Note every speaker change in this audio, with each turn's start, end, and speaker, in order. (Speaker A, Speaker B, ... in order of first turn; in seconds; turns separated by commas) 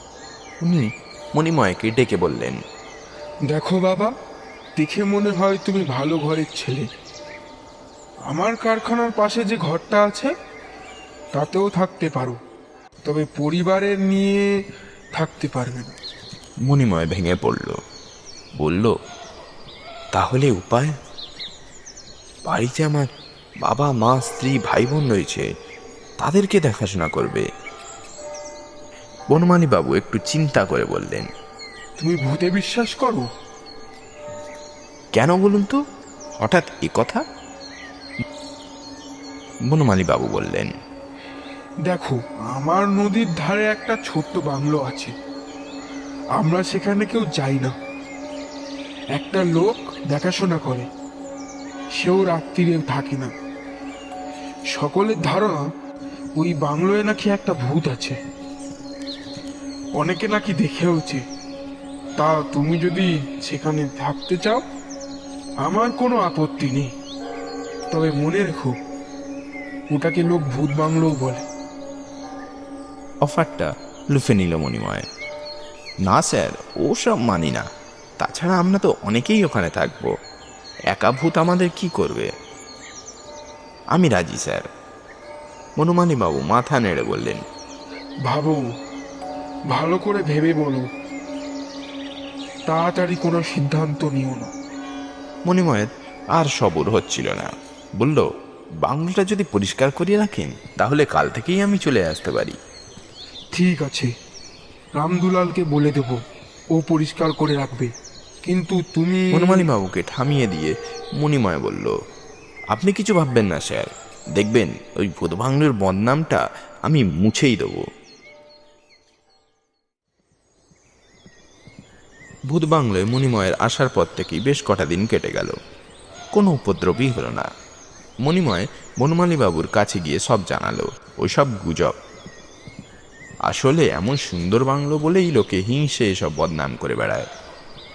Speaker A: 0.6-2.6, Speaker B: 3.5-4.1, Speaker B: 4.8-6.9, Speaker B: 8.3-10.3, Speaker B: 11.3-12.4, Speaker B: 13.0-14.5, Speaker B: 15.2-15.9, Speaker A: 16.7-17.8, Speaker A: 18.6-18.9, Speaker A: 20.1-20.9, Speaker A: 22.5-23.1, Speaker A: 23.6-25.5, Speaker A: 26.2-27.4, Speaker A: 29.3-31.3, Speaker B: 32.0-33.3, Speaker A: 35.1-35.8, Speaker A: 36.4-37.2, Speaker A: 39.7-40.7, Speaker B: 41.9-45.1, Speaker B: 46.4-47.7, Speaker B: 49.1-50.9, Speaker B: 52.0-53.3, Speaker B: 54.7-55.6, Speaker B: 56.4-58.2, Speaker B: 60.0-61.2, Speaker B: 62.2-64.6, Speaker B: 65.6-66.9, Speaker B: 67.9-68.8, Speaker B: 69.9-71.4, Speaker A: 73.2-75.0, Speaker A: 76.0-77.6, Speaker A: 78.2-80.1, Speaker A: 80.9-82.3, Speaker A: 83.9-84.7, Speaker A: 85.8-87.4, Speaker B: 88.2-88.6, Speaker B: 89.7-90.9, Speaker B: 92.7-94.5, Speaker A: 95.5-98.2, Speaker A: 98.8-102.6, Speaker B: 103.5-104.1, Speaker B: 104.9-106.2, Speaker B: 106.7-107.9, Speaker B: 108.4-109.7, Speaker A: 109.3-111.9, Speaker A: 112.7-117.8, Speaker A: 122.5-125.5, Speaker A: 126.3-127.5, Speaker A: 128.2-131.9, Speaker A: 133.5-137.3